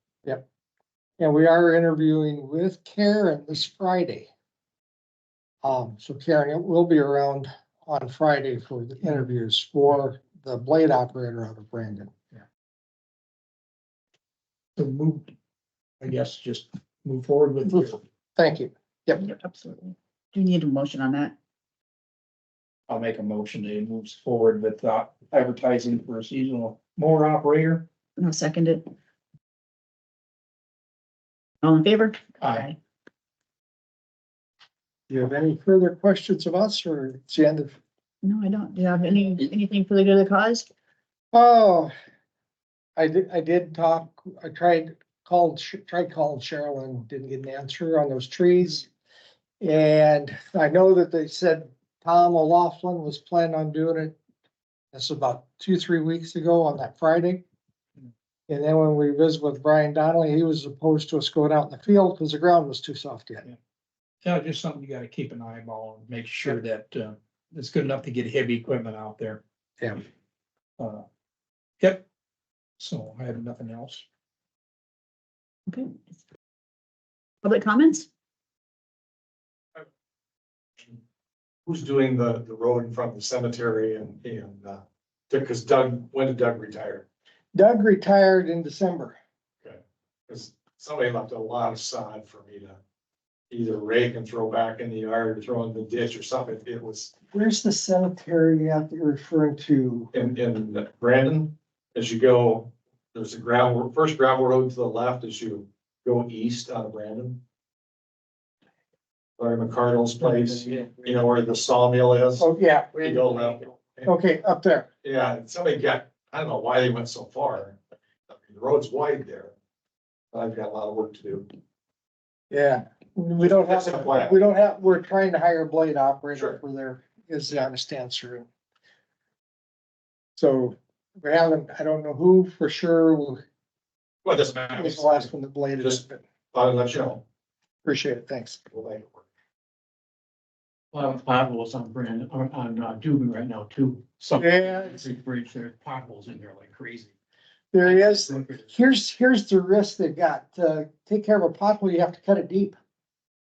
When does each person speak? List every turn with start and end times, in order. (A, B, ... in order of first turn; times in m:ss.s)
0:01.2-0:04.3 A
0:05.6-0:12.1 A
0:14.8-0:15.3 B
0:16.0-0:18.0 B
0:17.7-0:19.2 A
0:19.2-0:21.3 C
0:22.9-0:27.9 B
0:28.2-0:28.8 C
0:31.6-0:32.7 C
0:32.4-0:32.7 B
0:35.1-0:37.8 A
0:38.2-0:40.7 C
0:41.3-0:41.9 A
0:43.0-0:48.9 A
0:49.6-0:54.2 A
0:54.9-0:57.4 A
0:58.5-1:03.4 A
1:04.2-1:09.4 B
1:10.8-1:11.0 B
1:12.8-1:14.0 B
1:15.7-1:15.9 C
1:17.4-1:18.0 C
1:21.6-1:27.0 D
1:27.5-1:29.2 A
1:29.6-1:32.8 D
1:33.5-1:37.1 D
1:37.3-1:40.1 A
1:40.1-1:47.4 D
1:49.4-1:54.1 D
1:52.4-1:53.2 A
1:54.0-1:54.9 A
1:55.0-1:57.8 D
1:58.3-1:59.5 D
2:00.3-2:01.5 D
2:02.5-2:08.4 A
2:03.4-2:04.4 D
2:06.3-2:06.6 D
2:10.4-2:13.4 A
2:14.2-2:17.2 D
2:14.7-2:16.2 A
2:17.8-2:18.6 A
2:18.7-2:19.3 D
2:20.9-2:27.1 E
2:24.4-2:25.0 A
2:27.7-2:32.8 A
2:27.8-2:28.7 E